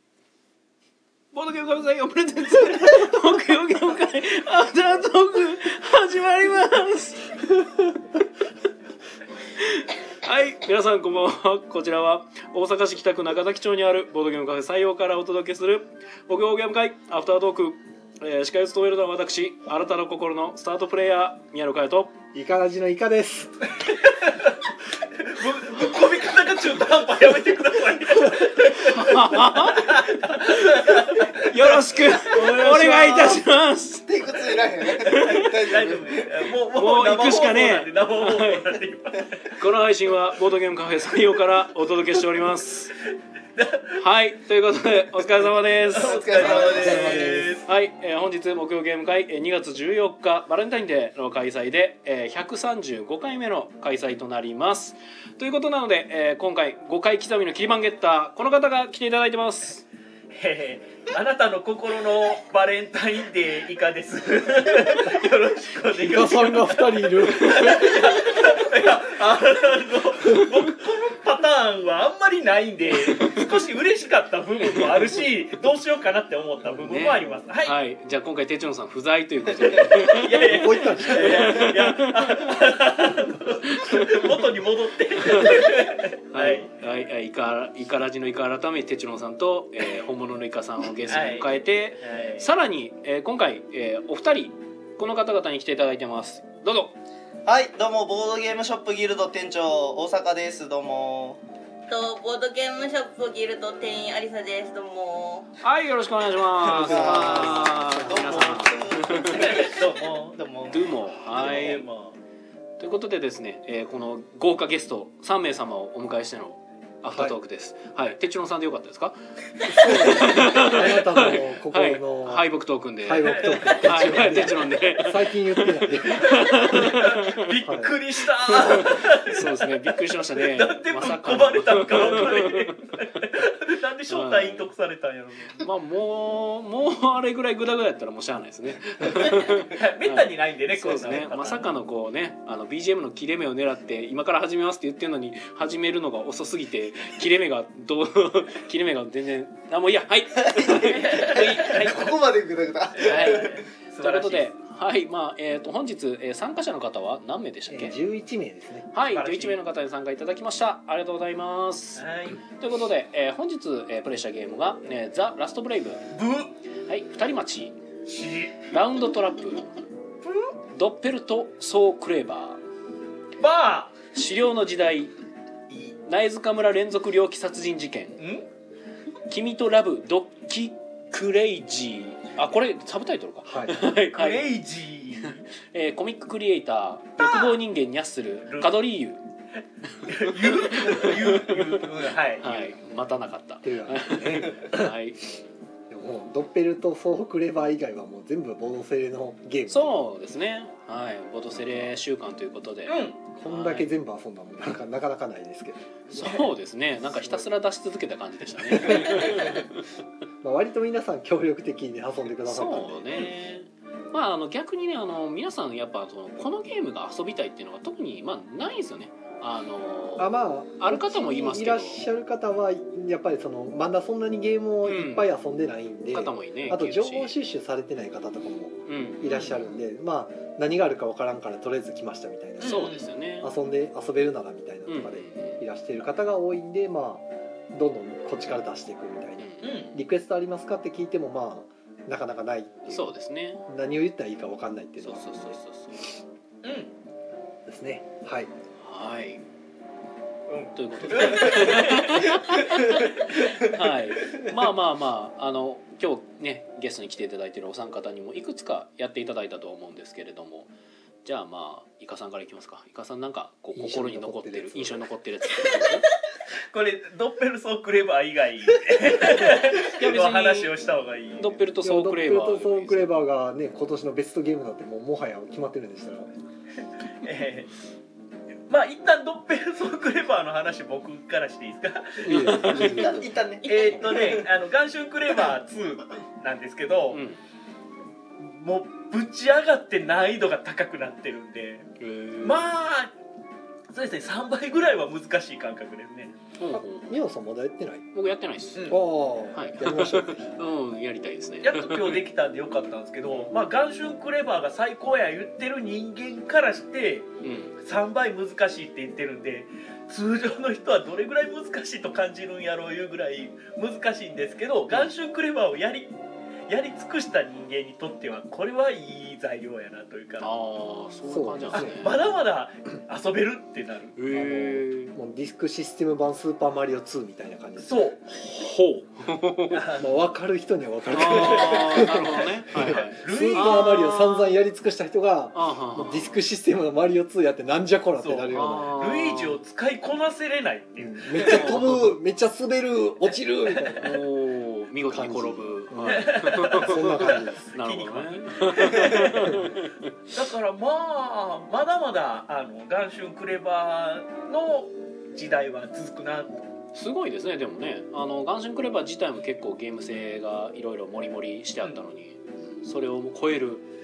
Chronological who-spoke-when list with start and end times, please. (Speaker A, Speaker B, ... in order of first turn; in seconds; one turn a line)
Speaker A: 1.3-8.0
Speaker A: 9.6-22.2
Speaker B: 22.3-23.6
Speaker C: 24.2-24.5
Speaker C: 25.2-31.4
Speaker A: 28.7-35.5
Speaker C: 32.2-33.1
Speaker D: 32.4-33.5
Speaker D: 34.0-36.5
Speaker C: 35.0-39.4
Speaker A: 36.7-38.8
Speaker A: 39.5-43.0
Speaker C: 43.6-43.9
Speaker A: 43.9-59.8
Speaker C: 45.9-47.6
Speaker D: 45.9-47.4
Speaker B: 46.4-47.6
Speaker C: 60.3-77.8
Speaker B: 66.0-68.2
Speaker A: 73.0-73.5
Speaker A: 74.6-75.2
Speaker A: 76.7-82.6
Speaker C: 79.9-86.7
Speaker B: 80.4-81.6
Speaker A: 83.7-84.2
Speaker A: 85.3-85.8
Speaker A: 86.3-97.0
Speaker C: 91.1-92.5
Speaker D: 97.5-101.4
Speaker E: 101.9-105.5
Speaker A: 105.6-109.6
Speaker D: 106.6-111.8
Speaker C: 109.3-110.5
Speaker A: 110.7-111.8
Speaker C: 111.3-112.2
Speaker A: 112.8-127.5
Speaker B: 117.1-117.4
Speaker B: 119.7-122.5
Speaker B: 123.0-126.8
Speaker C: 123.2-123.8
Speaker C: 126.5-135.7
Speaker B: 127.6-128.0
Speaker A: 128.5-132.9
Speaker A: 134.1-134.7
Speaker A: 135.6-151.9
Speaker C: 139.2-141.7
Speaker D: 150.4-153.6
Speaker C: 150.8-152.1
Speaker A: 153.0-158.0
Speaker C: 153.0-154.5
Speaker B: 157.7-158.9
Speaker A: 158.9-166.0
Speaker C: 159.0-159.6
Speaker C: 162.0-162.4
Speaker C: 166.1-166.5
Speaker A: 166.8-167.8
Speaker C: 168.1-168.7
Speaker A: 168.7-169.7
Speaker A: 170.7-172.6
Speaker C: 173.4-174.0
Speaker A: 174.1-175.1
Speaker A: 176.0-178.2
Speaker C: 178.2-178.5
Speaker A: 179.3-184.5
Speaker B: 183.4-183.9
Speaker C: 184.1-185.4
Speaker A: 185.2-189.2
Speaker C: 187.2-187.6
Speaker C: 188.5-188.8
Speaker A: 190.0-191.9
Speaker C: 190.1-192.7
Speaker A: 192.4-195.3
Speaker B: 193.6-194.9
Speaker B: 195.9-200.0
Speaker A: 199.7-203.9
Speaker B: 201.5-202.0
Speaker C: 202.9-203.2
Speaker B: 203.3-206.3
Speaker A: 206.1-209.9
Speaker B: 208.7-209.5
Speaker B: 210.4-213.3
Speaker A: 212.4-222.0
Speaker C: 213.1-213.4
Speaker B: 220.2-243.1
Speaker A: 224.8-225.3
Speaker A: 226.1-227.3
Speaker A: 228.9-229.8
Speaker C: 232.6-233.1
Speaker A: 232.6-233.5
Speaker A: 234.9-235.6
Speaker A: 239.4-240.0
Speaker C: 239.6-239.9
Speaker A: 242.9-243.6
Speaker B: 243.7-245.6
Speaker A: 245.0-246.2
Speaker C: 246.6-246.9
Speaker B: 247.7-248.5
Speaker A: 248.8-249.4
Speaker D: 250.5-254.6
Speaker A: 250.7-260.7
Speaker A: 261.2-266.1
Speaker B: 263.8-265.1
Speaker C: 266.7-271.6
Speaker A: 269.3-270.7
Speaker A: 271.4-273.2
Speaker B: 271.8-276.3
Speaker C: 277.2-277.7
Speaker C: 278.7-282.9
Speaker B: 282.2-283.3
Speaker A: 282.2-283.3
Speaker D: 282.8-284.4
Speaker E: 283.6-284.2
Speaker C: 283.6-287.2
Speaker A: 287.1-287.4
Speaker C: 288.4-291.9
Speaker A: 292.0-292.7
Speaker C: 292.4-293.1
Speaker C: 293.9-296.4
Speaker A: 296.6-297.2
Speaker B: 296.7-298.1
Speaker A: 298.1-299.0
Speaker B: 298.9-300.5
Speaker A: 299.5-302.2
Speaker C: 301.6-316.1
Speaker A: 307.4-307.8
Speaker C: 316.7-320.5
Speaker A: 320.4-322.2
Speaker B: 321.2-322.1
Speaker C: 321.7-324.1
Speaker A: 324.1-325.1
Speaker B: 324.3-328.0
Speaker C: 327.8-328.2
Speaker A: 328.3-330.0
Speaker C: 329.7-330.1
Speaker B: 330.0-338.9
Speaker A: 331.1-334.5
Speaker C: 331.3-334.1
Speaker A: 335.6-336.3
Speaker C: 338.2-341.8
Speaker A: 338.5-339.6
Speaker B: 341.0-344.2
Speaker A: 341.4-342.1
Speaker A: 343.9-350.1
Speaker B: 345.1-347.6
Speaker C: 346.1-349.6
Speaker C: 350.3-356.6
Speaker A: 356.9-363.9